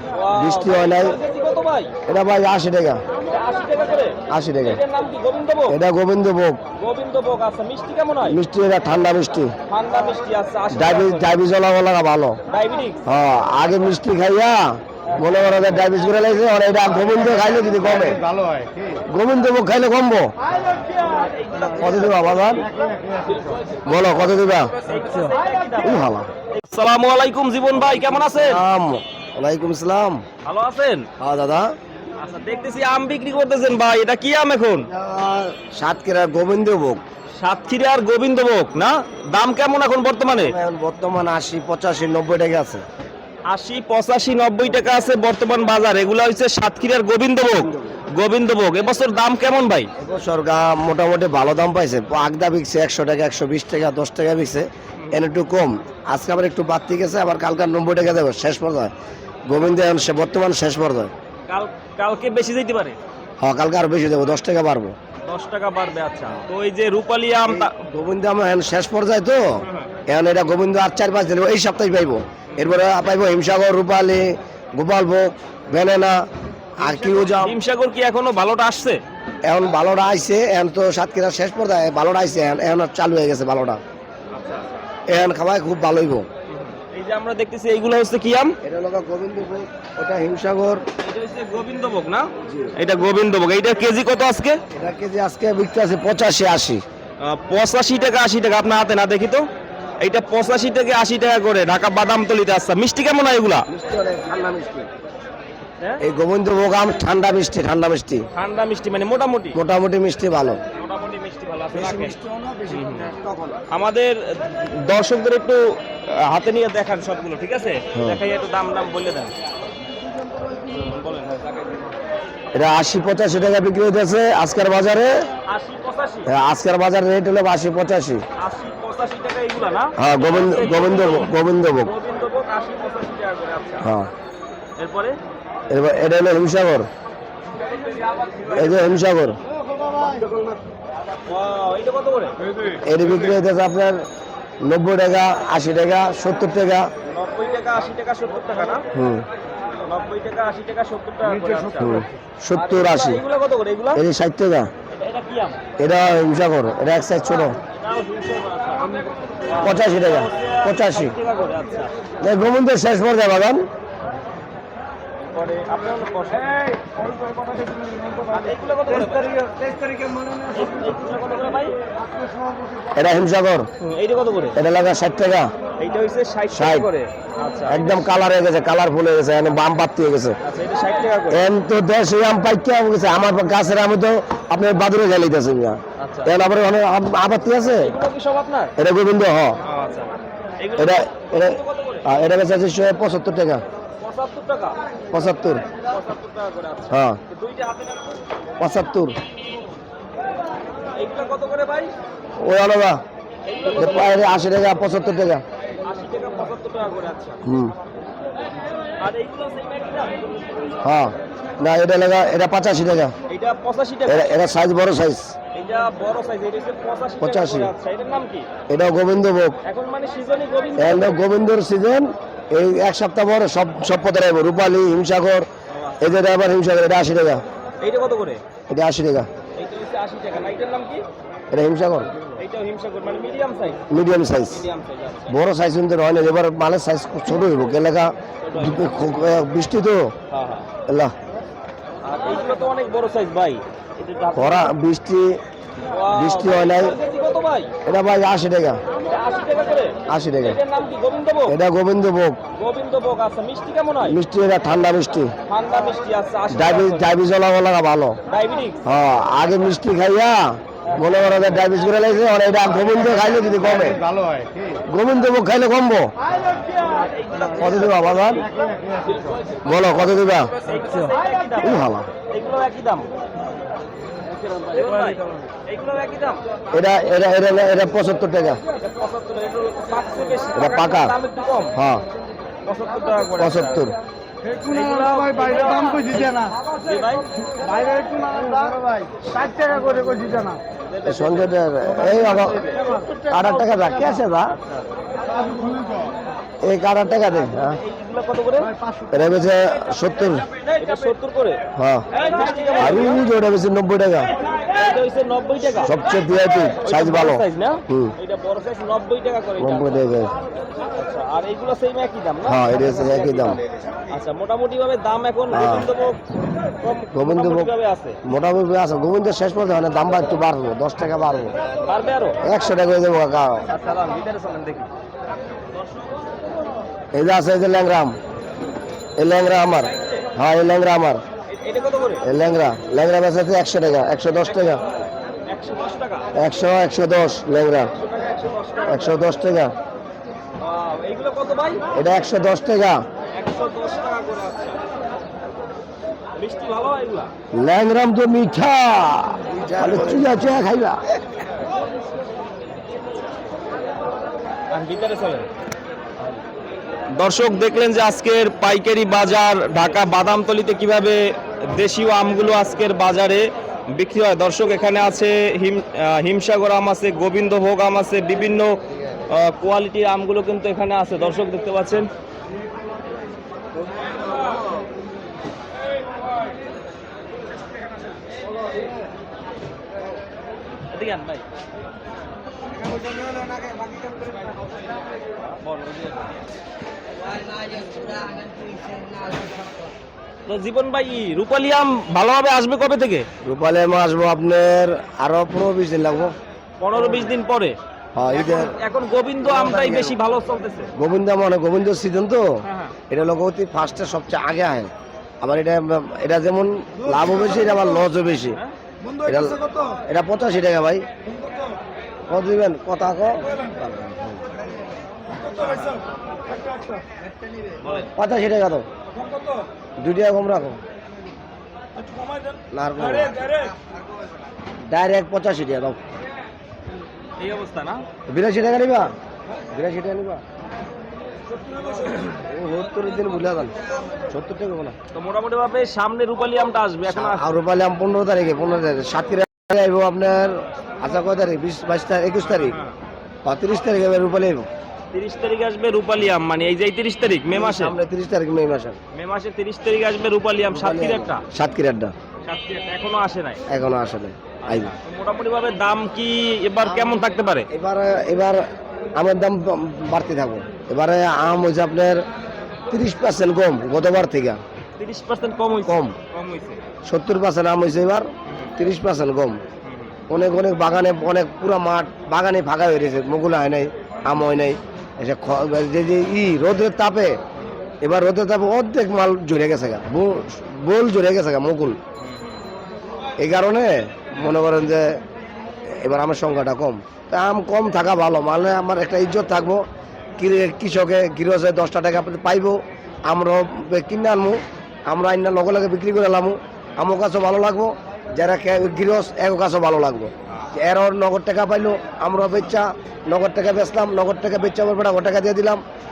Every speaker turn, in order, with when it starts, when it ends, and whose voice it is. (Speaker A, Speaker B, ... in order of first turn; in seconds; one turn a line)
Speaker A: 0.1-1.9
Speaker B: 0.3-1.2
Speaker B: 2.1-3.0
Speaker A: 3.2-5.8
Speaker B: 4.3-4.8
Speaker B: 5.7-6.6
Speaker A: 6.8-8.4
Speaker B: 8.2-9.5
Speaker A: 9.7-11.3
Speaker B: 10.7-12.4
Speaker A: 12.5-13.0
Speaker B: 13.1-18.2
Speaker B: 18.9-20.3
Speaker A: 20.6-22.2
Speaker B: 21.7-22.7
Speaker A: 23.1-23.6
Speaker B: 23.8-24.7
Speaker A: 24.8-26.0
Speaker B: 25.8-26.3
Speaker A: 26.5-28.6
Speaker B: 28.3-30.2
Speaker A: 30.4-31.1
Speaker B: 31.2-31.7
Speaker A: 32.2-34.9
Speaker B: 34.9-37.0
Speaker A: 37.4-40.5
Speaker B: 40.4-42.8
Speaker A: 43.5-49.9
Speaker B: 50.0-58.9
Speaker B: 59.5-61.1
Speaker A: 61.5-63.0
Speaker B: 63.4-64.9
Speaker A: 65.2-67.8
Speaker B: 67.5-76.2
Speaker B: 76.8-77.6
Speaker A: 76.8-79.0
Speaker B: 79.5-83.8
Speaker A: 84.3-84.8
Speaker B: 85.1-86.3
Speaker A: 86.5-88.5
Speaker B: 88.6-90.8
Speaker A: 91.0-94.6
Speaker B: 92.4-92.7
Speaker B: 94.7-96.8
Speaker A: 97.2-99.5
Speaker A: 100.0-103.7
Speaker B: 103.7-104.9
Speaker B: 106.0-108.2
Speaker A: 108.3-109.6
Speaker B: 109.5-110.6
Speaker A: 110.7-112.2
Speaker B: 111.7-113.6
Speaker A: 112.7-113.1
Speaker A: 113.7-119.3
Speaker B: 117.9-118.2
Speaker A: 120.7-121.9
Speaker B: 122.5-125.1
Speaker A: 125.5-126.3
Speaker B: 126.3-128.2
Speaker A: 128.4-133.9
Speaker B: 130.0-131.9
Speaker B: 133.8-134.1
Speaker A: 134.8-135.2
Speaker B: 135.7-136.9
Speaker A: 137.8-138.6
Speaker B: 138.5-139.4
Speaker A: 141.2-142.3
Speaker B: 142.8-144.0
Speaker B: 144.6-146.9
Speaker A: 147.0-148.8
Speaker B: 148.9-149.2
Speaker A: 149.8-154.0
Speaker B: 151.8-153.2
Speaker B: 153.9-154.7
Speaker A: 154.9-155.6
Speaker B: 155.8-157.6
Speaker A: 157.7-161.9
Speaker B: 159.6-161.2
Speaker B: 162.2-163.6
Speaker A: 165.2-166.9
Speaker A: 168.2-169.4
Speaker A: 170.5-171.7
Speaker B: 172.9-173.7
Speaker A: 173.8-174.6
Speaker B: 174.6-175.5
Speaker A: 175.8-178.0
Speaker B: 176.5-176.9
Speaker B: 177.7-180.4
Speaker A: 180.4-181.4
Speaker B: 181.3-187.9
Speaker A: 186.0-186.3
Speaker A: 187.8-188.7
Speaker B: 188.8-189.6
Speaker A: 189.6-192.2
Speaker B: 190.8-193.6
Speaker A: 194.0-194.8
Speaker B: 195.1-195.7
Speaker A: 195.7-198.2
Speaker B: 196.9-197.2
Speaker B: 198.6-199.2
Speaker A: 200.9-201.9
Speaker B: 202.4-203.0
Speaker A: 203.4-204.3
Speaker B: 203.7-205.4
Speaker A: 205.8-207.4
Speaker B: 207.4-207.7
Speaker A: 209.0-210.7
Speaker B: 210.8-213.1
Speaker A: 213.3-214.3
Speaker B: 214.1-215.3
Speaker A: 215.5-218.5
Speaker B: 217.2-217.7
Speaker B: 218.7-219.6
Speaker A: 219.6-221.2
Speaker B: 220.8-225.5
Speaker A: 225.7-226.4
Speaker B: 226.0-227.4
Speaker A: 227.8-228.4
Speaker B: 228.7-229.3
Speaker A: 229.5-231.0
Speaker B: 231.5-232.1
Speaker A: 232.3-233.8
Speaker B: 233.9-234.7
Speaker A: 234.5-235.4
Speaker B: 235.3-240.1
Speaker A: 238.4-239.1
Speaker A: 240.3-240.7
Speaker B: 240.9-241.1
Speaker A: 242.0-244.7
Speaker B: 244.3-245.4
Speaker A: 245.9-247.7
Speaker B: 246.1-246.9
Speaker B: 247.8-248.8
Speaker A: 249.0-251.5
Speaker B: 250.1-250.6
Speaker B: 251.5-252.4
Speaker A: 252.5-254.2
Speaker B: 254.0-255.3
Speaker A: 255.5-257.1
Speaker B: 256.5-258.2
Speaker A: 258.3-258.8
Speaker B: 258.8-264.0
Speaker A: 260.9-261.1
Speaker C: 264.3-264.6
Speaker B: 264.7-266.1
Speaker A: 266.4-269.5
Speaker B: 267.6-268.5
Speaker B: 269.6-270.5
Speaker A: 270.6-273.1
Speaker B: 271.6-272.1
Speaker A: 274.6-276.4
Speaker B: 276.7-278.6
Speaker A: 278.7-281.8
Speaker B: 280.5-281.1
Speaker B: 281.7-282.0
Speaker A: 282.6-283.9
Speaker B: 283.4-283.9
Speaker A: 284.6-287.3
Speaker C: 287.7-290.5
Speaker A: 290.9-291.5
Speaker B: 291.0-292.6
Speaker A: 292.1-293.4
Speaker B: 293.3-294.5
Speaker A: 294.5-294.9
Speaker B: 296.6-297.8
Speaker A: 297.6-298.7
Speaker B: 299.1-300.5
Speaker A: 300.8-303.2
Speaker B: 301.7-302.1
Speaker B: 302.8-304.3
Speaker A: 304.6-305.9
Speaker B: 305.8-308.1
Speaker A: 306.8-310.1
Speaker B: 309.6-310.3
Speaker A: 310.7-313.6
Speaker B: 312.4-313.6
Speaker A: 314.1-316.2
Speaker B: 315.5-315.9
Speaker A: 316.8-318.2
Speaker B: 317.1-317.7
Speaker B: 318.2-321.5
Speaker A: 321.9-322.4
Speaker B: 322.4-323.7
Speaker A: 323.7-324.9
Speaker B: 327.1-328.1
Speaker B: 329.2-331.2
Speaker A: 330.0-330.3
Speaker A: 331.5-332.2
Speaker B: 332.2-334.8
Speaker A: 334.4-334.9
Speaker A: 335.4-336.3
Speaker B: 336.3-337.9
Speaker A: 337.9-339.2
Speaker B: 338.9-339.7
Speaker A: 340.6-341.8
Speaker B: 341.9-343.0
Speaker A: 343.3-344.9
Speaker A: 346.3-347.3
Speaker B: 347.5-351.1
Speaker A: 354.7-355.5
Speaker A: 357.1-372.1
Speaker A: 380.9-381.4
Speaker A: 385.6-386.3
Speaker A: 390.5-393.3
Speaker B: 393.4-396.3
Speaker A: 396.8-397.8
Speaker B: 398.1-398.7
Speaker A: 398.3-400.9
Speaker B: 399.4-400.1
Speaker B: 400.9-402.4
Speaker A: 402.6-402.9
Speaker B: 403.1-404.9
Speaker B: 405.4-408.6
Speaker B: 409.2-411.1
Speaker B: 412.3-414.4
Speaker A: 415.4-415.9
Speaker A: 417.8-418.1
Speaker B: 418.1-418.9
Speaker B: 420.0-420.8
Speaker A: 422.0-423.7
Speaker B: 422.7-423.4
Speaker B: 424.9-426.0
Speaker A: 427.4-428.0
Speaker B: 428.3-429.1
Speaker B: 429.7-430.4
Speaker A: 431.5-432.4
Speaker B: 432.3-433.7
Speaker B: 434.3-434.9
Speaker A: 435.1-437.4
Speaker B: 437.1-442.8
Speaker A: 442.4-442.9
Speaker B: 443.4-444.7
Speaker A: 445.1-447.9
Speaker B: 447.5-449.0
Speaker A: 449.1-451.4
Speaker B: 450.7-452.1
Speaker A: 452.4-453.6
Speaker B: 453.7-454.9
Speaker A: 454.6-457.7
Speaker B: 457.7-458.6
Speaker B: 459.1-462.2
Speaker B: 462.9-464.6
Speaker A: 465.0-466.8
Speaker B: 465.9-466.1
Speaker B: 467.1-469.6
Speaker A: 468.5-468.7
Speaker A: 469.8-470.1
Speaker B: 470.3-477.4
Speaker B: 478.0-482.0
Speaker A: 482.2-482.6
Speaker B: 483.4-485.2
Speaker B: 485.9-489.8
Speaker B: 490.4-505.8